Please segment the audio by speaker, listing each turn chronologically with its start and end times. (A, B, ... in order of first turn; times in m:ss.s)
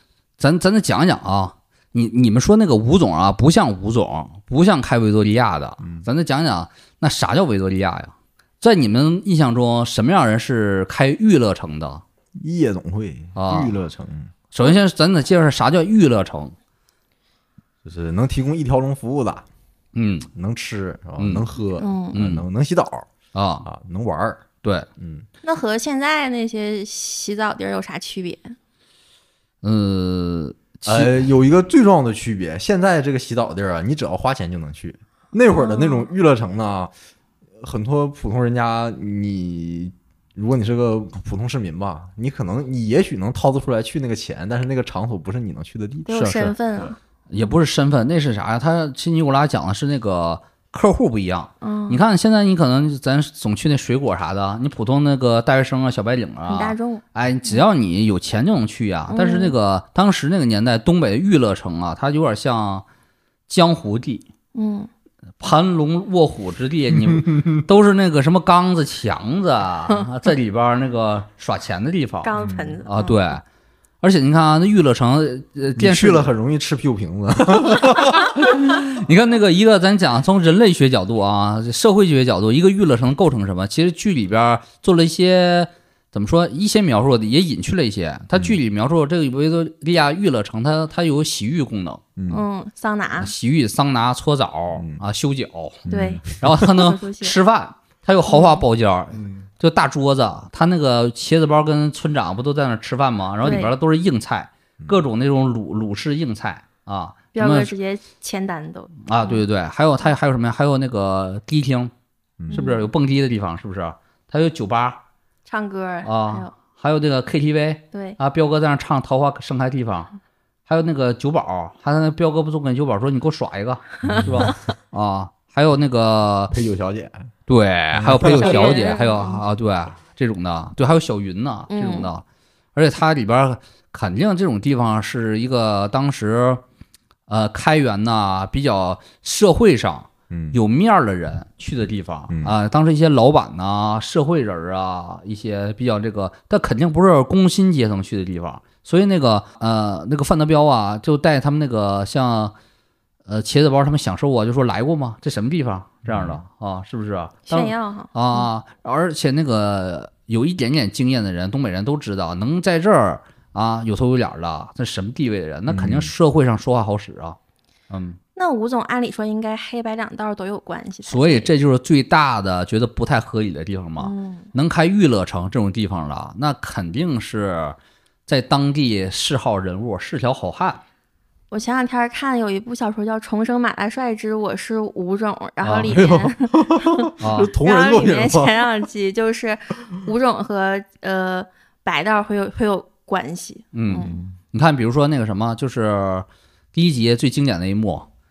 0:00.4-0:12.0 A
0:05.8-0:06.0 B
0:12.4-0:14.3 B
0:13.3-0:13.7 A
0:14.5-0:16.5 A
0:17.8-0:19.4 B
0:19.9-0:20.3 A
0:20.3-0:23.0 B
0:21.8-0:22.2 C
0:22.1-0:22.4 A
0:23.3-0:23.6 A
0:23.6-0:24.4 B
0:25.0-0:25.2 B
0:25.4-0:28.6 C
0:29.6-0:31.3 A
0:30.8-0:36.9 B
0:35.6-0:36.1 C
0:37.6-0:46.1 B
0:46.0-0:47.0 C
0:46.1-0:46.6 A
0:47.3-1:02.8 A
0:51.6-0:52.0 C
0:56.4-0:57.6 C
0:59.1-0:59.5 C
1:03.5-1:04.2 A
1:04.5-1:04.9 C
1:05.4-1:12.3 A
1:07.1-1:07.4 B
1:12.2-1:13.2 C
1:12.4-1:12.8 B
1:12.8-1:13.4 A
1:14.0-1:16.3 A
1:15.8-1:18.2 B
1:18.2-1:32.0 A
1:32.2-1:32.4 B
1:32.3-1:33.3 C
1:33.2-1:35.8 A
1:34.7-1:35.0 B
1:35.8-1:36.6 B
1:35.9-1:37.4 C
1:36.4-1:47.7 A
1:38.3-1:38.6 C
1:39.1-1:39.5 B
1:43.4-1:43.7 C
1:47.3-1:49.4 C
1:49.0-1:51.9 A
1:52.5-1:55.0 A
1:52.5-1:52.9 C
1:55.5-1:56.5 C
1:56.0-2:00.1 A
1:57.9-1:58.2 C
2:00.7-2:06.5 A
2:04.0-2:04.5 B
2:06.5-2:07.3 B
2:07.5-2:12.2 A
2:07.9-2:08.4 B
2:08.4-2:09.4 C
2:11.7-2:12.1 C
2:12.7-2:16.6 A
2:17.3-2:32.5 A
2:20.3-2:20.6 B
2:22.3-2:22.6 B
2:33.3-2:47.4 A
2:36.0-2:36.4 B
2:37.5-2:38.5 C
2:45.7-2:46.1 B
2:47.9-2:48.2 A
2:48.4-2:51.5 C
2:51.0-2:57.8 A
2:54.0-2:54.5 C
2:58.3-3:00.8 A
3:01.5-3:14.2 C
3:05.6-3:05.9 A
3:05.9-3:08.7 B
3:07.2-3:07.5 A
3:13.7-3:18.1 A